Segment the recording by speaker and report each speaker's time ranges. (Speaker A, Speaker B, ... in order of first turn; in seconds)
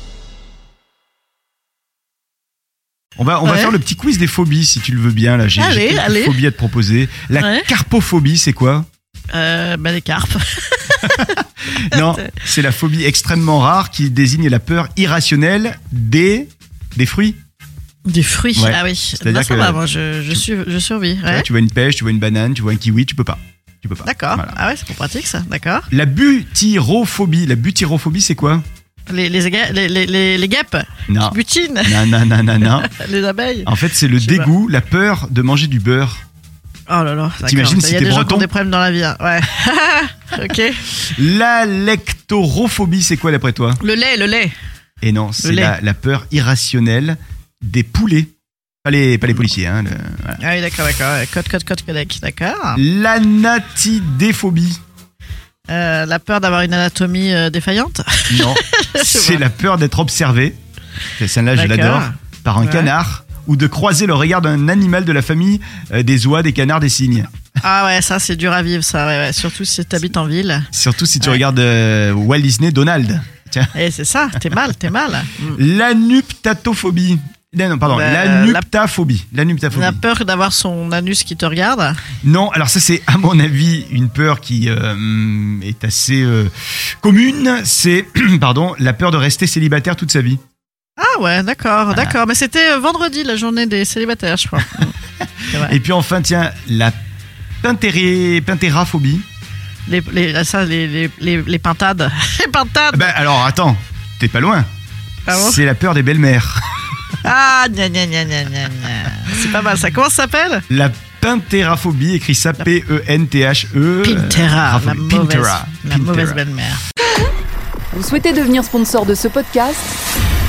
Speaker A: 3.2-8.9, 11.0-17.4, 18.6-19.8, 21.2-24.5, 25.9-28.6, 31.1-32.9, 33.6-36.2, 37.4-38.5, 41.0-43.8, 45.0-48.3, 48.8-50.4, 52.7-54.8, 58.3-60.6, 61.2-67.3, 70.7-73.7, 75.5-80.0, 82.2-90.4, 95.5-96.9, 97.6-99.2, 102.9-104.7, 105.3-106.7, 110.7-116.4
Speaker B: 3.5-3.7, 5.6-6.4, 7.4-7.7, 9.3-12.4, 18.0-21.5, 24.0-25.9, 29.1-34.5, 36.9-40.9, 43.8-44.5, 45.4-45.8, 50.4-52.8, 55.7-59.4, 61.5-62.9, 67.6-70.7, 73.7-75.6, 77.9-78.7, 79.7-82.0, 91.0-95.0, 95.5-95.8, 99.8-103.2, 105.3-105.6, 107.2-110.6, 114.0-116.8
Speaker C: 117.9-120.0